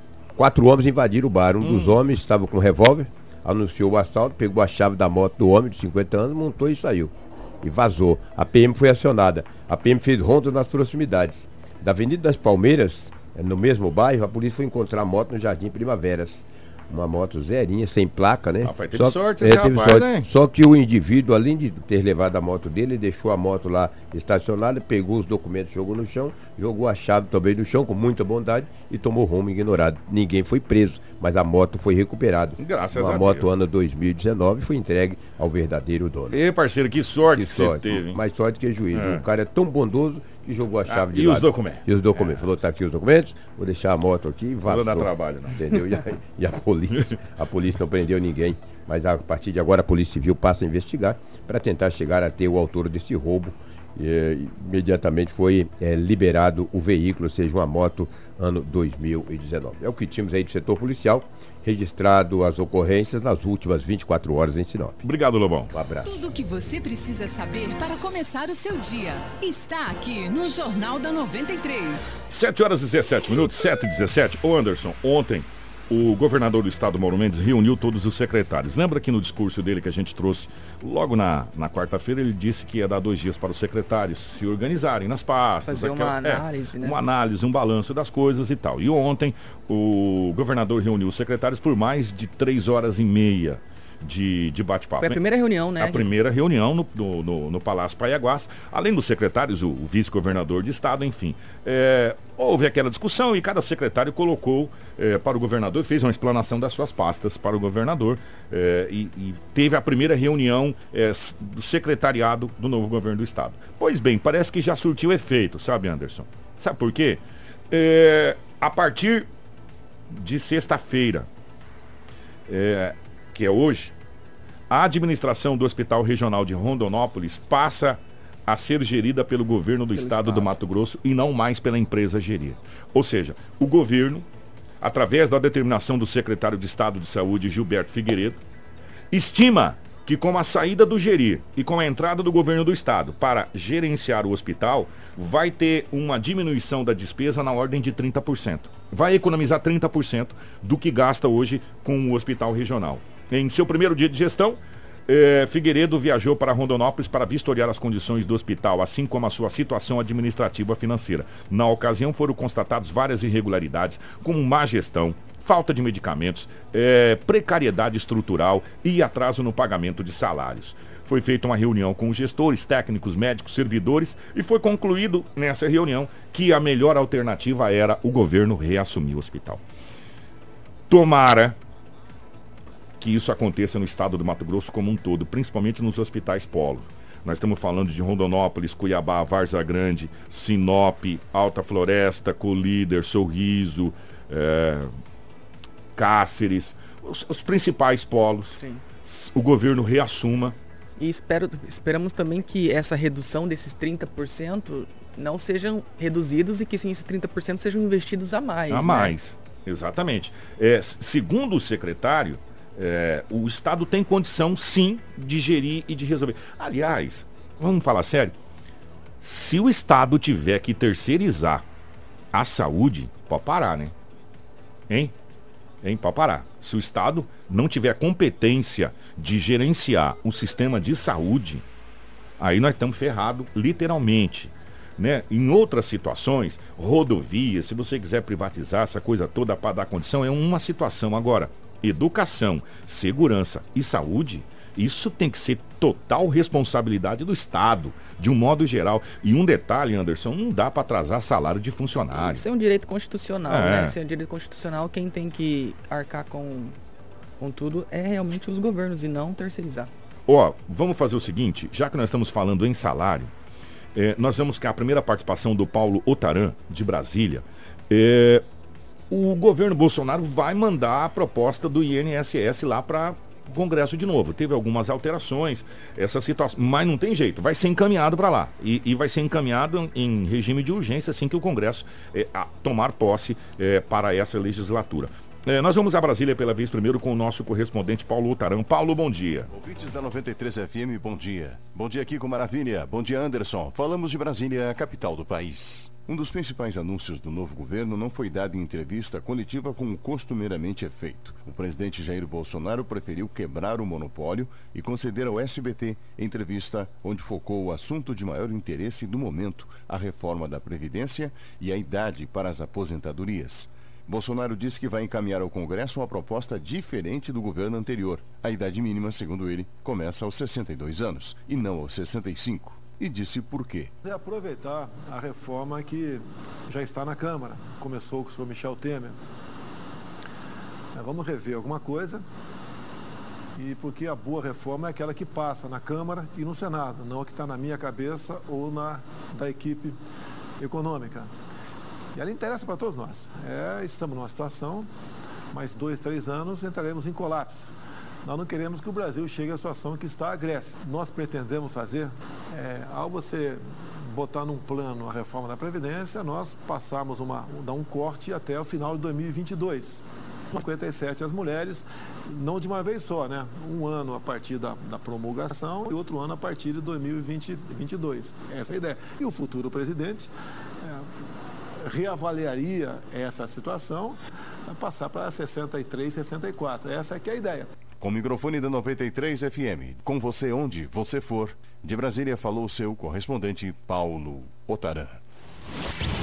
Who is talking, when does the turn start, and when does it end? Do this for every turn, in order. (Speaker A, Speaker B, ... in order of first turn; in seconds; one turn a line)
Speaker A: 0.3-36.4
Speaker B: 1.6-2.0
Speaker B: 18.6-20.3
Speaker B: 32.6-33.5
Speaker B: 36.3-38.2
Speaker A: 37.4-65.0
Speaker B: 38.9-39.2
Speaker B: 40.9-42.4
Speaker B: 44.7-45.6
Speaker B: 65.0-65.7
Speaker A: 65.7-66.2
Speaker C: 66.0-72.2
Speaker B: 72.3-95.2
Speaker D: 85.6-87.0
Speaker D: 95.0-96.1
Speaker B: 95.8-119.3
Speaker B: 120.1-121.3
Speaker B: 122.5-123.9
Speaker B: 124.7-134.3
Speaker D: 130.0-130.6
Speaker B: 134.8-138.4
Speaker B: 139.1-179.6
Speaker B: 180.9-181.6
Speaker B: 183.0-194.9
Speaker B: 196.0-200.6
Speaker D: 198.5-198.8
Speaker D: 201.0-209.1
Speaker B: 208.7-218.4
Speaker B: 219.2-221.6
Speaker B: 222.3-223.9
Speaker B: 224.9-225.1
Speaker B: 225.8-231.6
Speaker B: 232.4-252.4
Speaker D: 252.1-256.8
Speaker B: 253.5-254.0
Speaker D: 257.4-259.9
Speaker B: 260.3-263.3
Speaker B: 263.9-268.4
Speaker B: 269.1-289.5
Speaker E: 289.5-323.9
Speaker F: 324.0-329.2
Speaker F: 330.9-332.2
Speaker F: 333.6-340.0
Speaker F: 340.6-341.3
Speaker F: 342.1-344.9
Speaker F: 345.5-347.7
Speaker F: 348.2-370.3
Speaker F: 370.8-371.1
Speaker F: 371.8-377.7
Speaker E: 378.0-385.2